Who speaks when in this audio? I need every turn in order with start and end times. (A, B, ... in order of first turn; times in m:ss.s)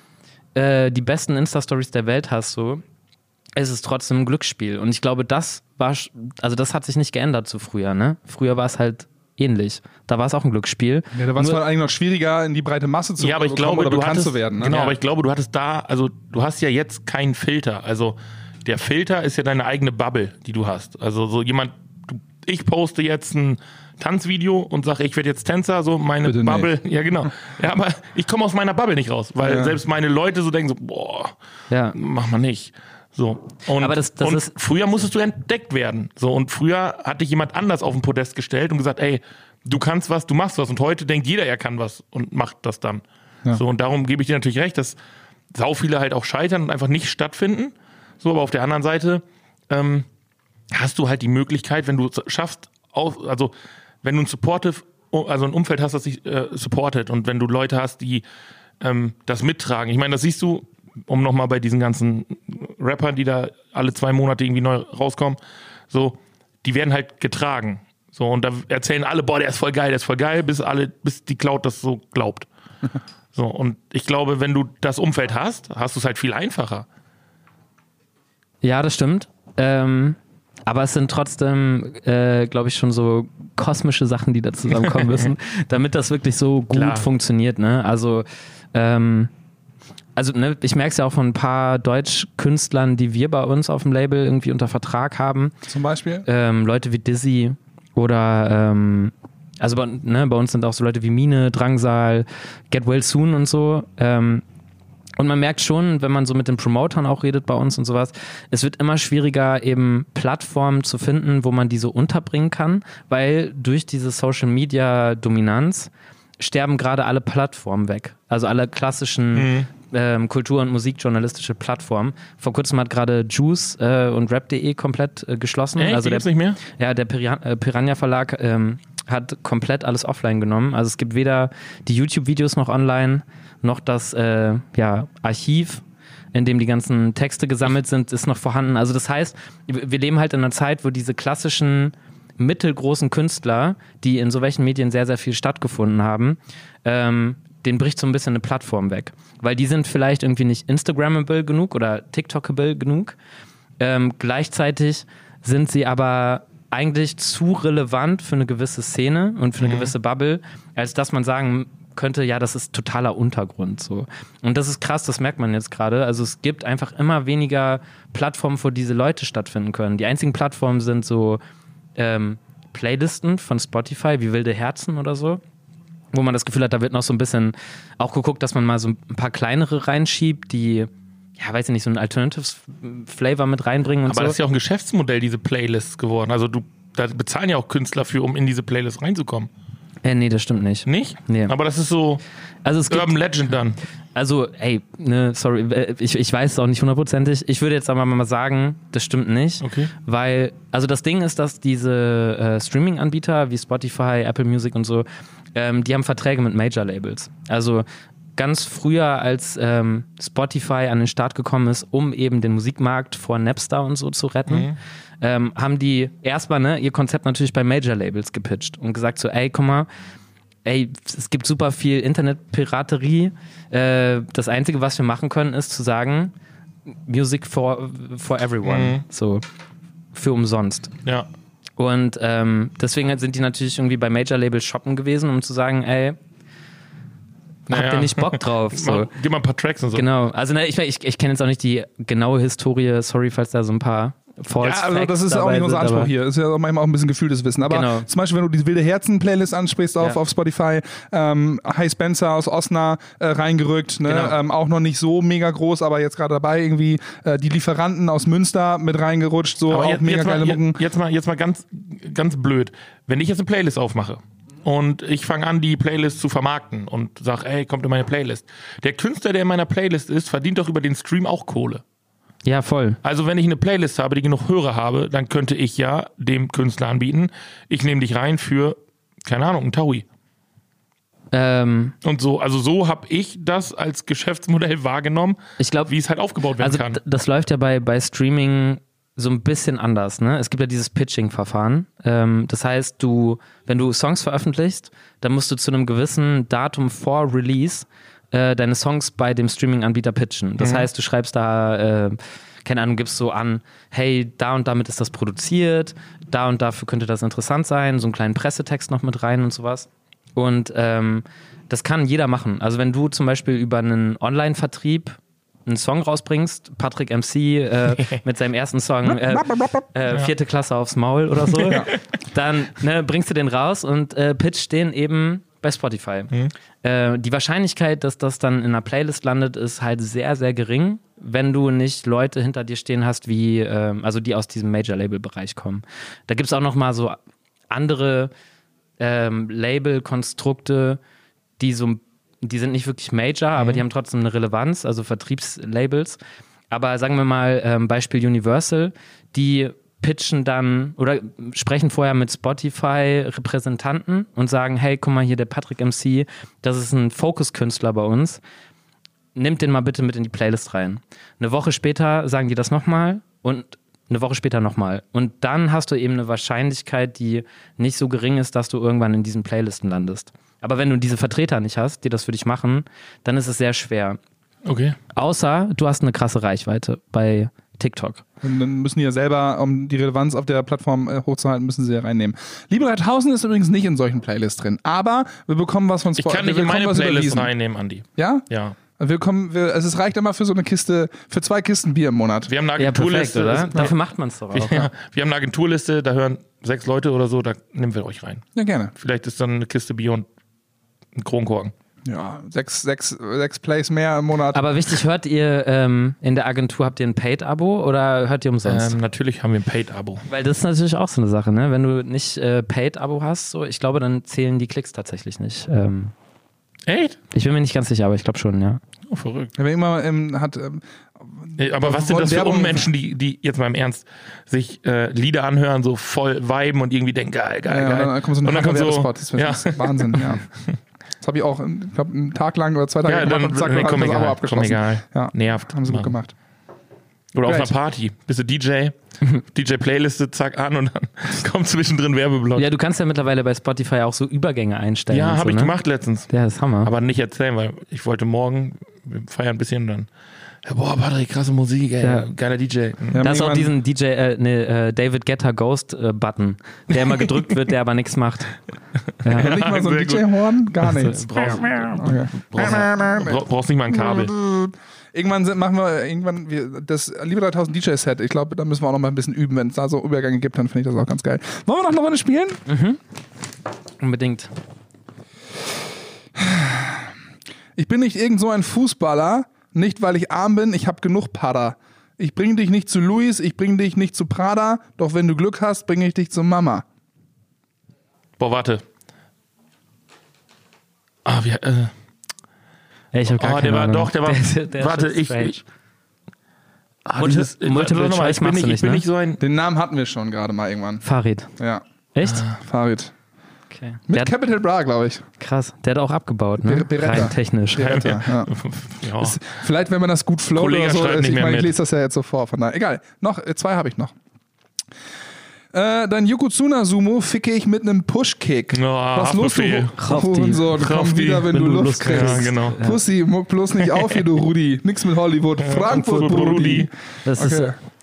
0:00.5-0:02.8 A
0:03.6-0:11.6 A
0:11.1-0:14.9 B
0:13.2-0:31.3 C
0:26.2-0:26.7 B
0:29.4-0:29.8 B
0:31.7-0:32.0 A
0:31.9-0:45.0 C
0:33.8-0:34.5 A
0:45.5-0:50.0 C
0:50.7-0:58.2 C
0:58.8-1:05.4 C
1:05.9-1:12.5 C
1:13.3-1:16.8 C
1:18.6-1:29.3 A
1:24.8-1:25.3 C
1:26.7-1:27.0 C
1:30.2-1:35.5 A
1:35.7-1:36.2 B
1:36.2-1:44.4 A
1:45.2-2:15.8 A
1:59.3-1:59.7 C
2:05.8-2:06.6 C
2:16.3-2:33.2 A
2:33.8-2:51.4 A
2:39.6-2:39.9 C
2:52.0-2:55.4 A
2:56.1-3:04.4 A
3:04.0-3:09.5 C
3:10.0-3:11.5 A
3:10.9-3:12.2 C
3:12.6-3:13.2 A
3:12.9-3:13.8 C
3:14.1-3:39.9 A
3:19.6-3:19.9 C
3:34.5-3:34.8 C
3:40.6-3:46.3 A
3:47.1-3:49.4 A
3:48.6-3:49.0 C
3:50.1-3:50.9 A
3:51.8-3:56.2 A
3:57.7-3:59.1 A
3:57.7-4:00.1 C
3:59.9-4:06.1 A
4:04.6-4:20.8 B
4:07.6-4:08.1 A
4:14.1-4:14.4 A
4:19.7-4:31.8 C
4:32.4-4:33.0 A
4:33.0-4:40.0 C
4:41.3-4:41.9 A
4:42.0-4:47.0 C
4:45.6-4:45.9 A
4:46.6-5:26.3 A
5:00.6-5:00.9 C
5:19.4-5:19.8 B
5:21.4-5:21.8 C
5:26.8-5:37.2 A
5:37.7-5:38.3 A
5:39.0-5:41.0 A
5:41.6-5:46.2 A
5:43.6-5:43.8 C
5:46.7-5:58.4 A
5:59.4-6:14.2 A
6:14.6-6:15.0 C
6:15.1-6:18.2 A
6:18.4-6:27.5 B
6:26.2-6:28.8 C
6:28.2-6:28.4 B
6:29.0-6:32.5 B
6:32.5-6:33.9 C
6:32.8-6:34.9 A
6:34.5-6:38.4 C
6:38.5-6:38.9 B
6:39.0-6:40.2 C
6:41.2-6:41.7 C
6:42.0-6:44.6 B
6:44.5-6:49.0 A
6:48.6-6:50.2 C
6:50.3-6:56.1 A
6:56.8-6:57.2 C
6:57.3-6:58.8 A
6:59.1-6:59.5 C
6:59.6-7:02.9 B
7:01.6-7:10.4 C
7:07.7-7:10.4 B
7:11.2-7:16.3 B
7:13.0-7:16.1 C
7:17.3-7:22.6 C
7:17.4-7:17.7 B
7:22.6-7:25.7 A
7:25.1-7:26.3 C
7:26.3-7:26.9 A
7:26.8-7:30.1 C
7:30.6-7:33.3 C
7:32.0-7:32.3 A
7:33.1-7:33.7 B
7:33.2-7:38.6 A
7:37.1-7:37.6 C
7:39.2-7:39.6 A
7:39.3-7:40.3 C
7:39.3-7:52.6 B
7:40.8-7:44.3 C
7:41.2-7:41.6 A
7:52.6-7:53.0 A
7:54.0-7:54.5 A
7:56.3-7:57.1 B
7:57.8-8:06.8 B
8:08.4-8:08.8 C
8:11.2-8:11.9 C
8:13.1-8:15.6 A
8:13.4-8:15.5 C
8:17.0-8:19.4 C
8:17.2-8:19.0 A
8:19.4-8:21.0 B
8:21.0-8:21.5 A
8:21.6-8:21.8 B
8:22.1-8:22.4 A
8:22.4-8:23.1 B
8:23.7-8:24.3 A
8:24.1-8:25.2 B
8:25.4-8:28.0 A
8:26.6-8:28.5 B
8:27.8-8:29.5 C
8:29.1-8:34.1 B
8:30.5-8:31.7 C
8:35.7-8:47.8 B
8:38.7-8:39.9 C
8:40.0-8:40.7 A
8:40.6-8:42.8 C
8:41.4-8:43.0 A
8:43.9-8:44.2 C
8:45.6-8:46.9 C
8:47.2-8:47.7 A